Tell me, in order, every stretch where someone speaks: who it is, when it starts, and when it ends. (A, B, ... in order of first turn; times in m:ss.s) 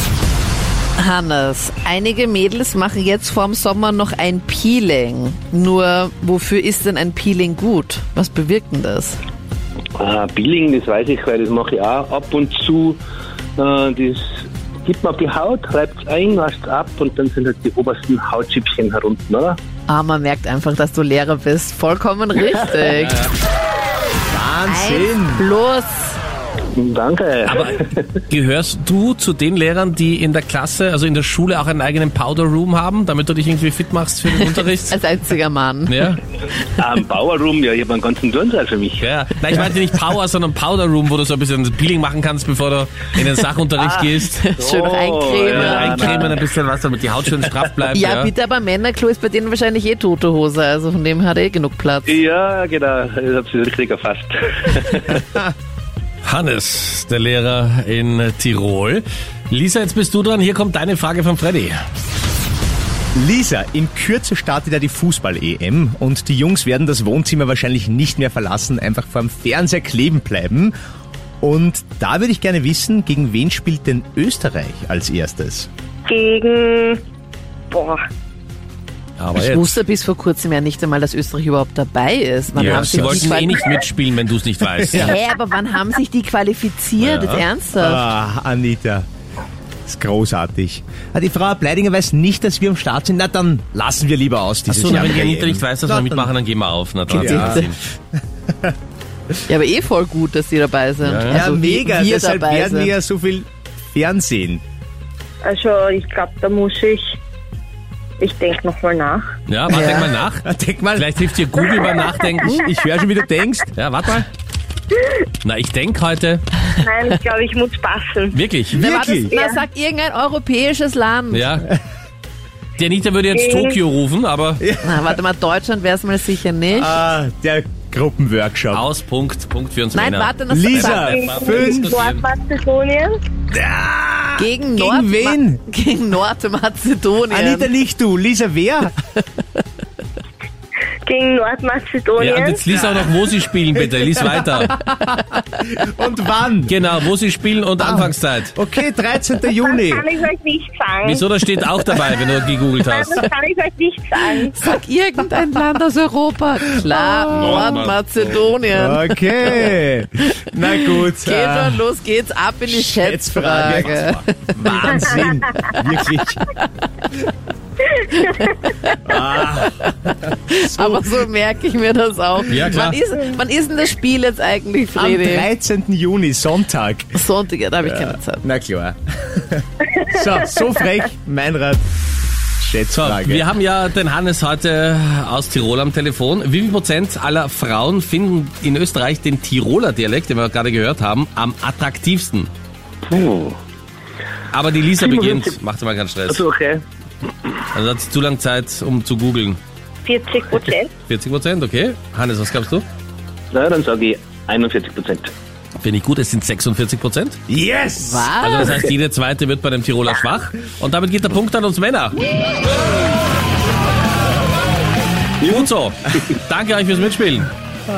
0:01.0-0:09.2 A
0:10.0-0:13.0 B
0:13.6-0:19.6 B
0:19.9-0:23.3 A
0:24.3-0:25.4 C
0:24.6-0:26.2 A
0:26.7-0:28.1 B
0:27.5-0:27.8 D
0:28.3-0:35.0 D
0:34.4-0:36.2 A
0:35.9-0:36.2 D
0:36.8-0:39.6 B
0:39.0-0:44.4 D
0:43.8-0:46.3 B
0:44.3-0:46.4 A
0:45.4-0:48.3 D
0:47.9-0:52.1 A
0:52.1-0:55.4 B
0:56.2-1:01.8 D
1:03.1-1:10.7 C
1:11.4-1:15.7 C
1:16.1-1:17.0 E
1:17.7-1:18.0 E
1:19.2-1:19.8 D
1:19.3-1:23.8 A
1:22.5-1:23.4 C
1:22.6-1:25.1 D
1:24.9-1:28.0 A
1:27.0-1:27.4 D
1:27.8-1:29.0 C
1:29.8-1:36.3 C
1:34.7-1:37.8 D
1:37.1-1:37.7 A
1:37.1-1:37.6 C
1:39.5-1:42.9 A
1:41.0-1:41.4 D
1:41.3-1:44.6 C
1:45.4-1:47.2 E
1:48.2-1:49.2 E
1:49.5-1:52.7 D
1:49.7-1:50.1 A
1:50.4-1:51.1 C
1:52.4-1:53.7 C
1:53.7-1:54.3 D
1:55.4-1:56.4 D
1:56.8-1:58.4 E
1:58.3-1:58.8 D
1:58.7-1:59.3 C
1:58.8-2:01.6 A
1:59.2-1:59.6 E
2:01.3-2:01.6 D
2:02.8-2:04.6 D
2:03.3-2:03.8 E
2:04.6-2:05.1 C
2:04.8-2:07.0 A
2:06.7-2:08.8 C
2:08.7-2:12.2 D
2:09.9-2:11.1 A
2:10.5-2:11.9 C
2:11.1-2:13.1 E
2:13.5-2:15.6 C
2:14.4-2:17.7 A
2:17.3-2:18.9 C
2:21.0-2:22.6 E
2:22.2-2:24.7 D
2:22.7-2:23.3 C
2:24.0-2:26.8 C
2:26.7-2:28.5 D
2:27.8-2:30.1 C
2:29.6-2:31.2 E
2:31.0-2:33.2 D
2:32.6-2:34.6 E
2:34.6-2:39.8 A
2:36.8-2:37.7 C
2:37.3-2:38.5 D
2:38.7-2:41.8 C
2:40.8-2:45.7 A
2:42.6-2:46.5 C
2:43.5-2:44.2 D
2:47.9-2:49.8 A
2:49.0-2:51.2 C
2:50.5-2:55.5 A
2:52.5-2:53.0 D
2:54.9-2:57.2 C
2:57.1-2:58.4 A
2:57.8-3:01.8 C
3:02.6-3:03.5 C
3:02.9-3:12.5 D
3:13.0-3:13.6 B
3:14.5-3:16.4 D
3:15.0-3:15.6 B
3:16.3-3:16.8 B
3:17.7-3:19.6 D
3:20.0-3:20.9 E
3:21.1-3:22.8 D
3:23.5-3:25.3 B
3:25.8-3:27.4 D
3:27.5-3:28.3 C
3:28.0-3:28.8 A
3:28.4-3:32.2 D
3:35.4-3:37.5 D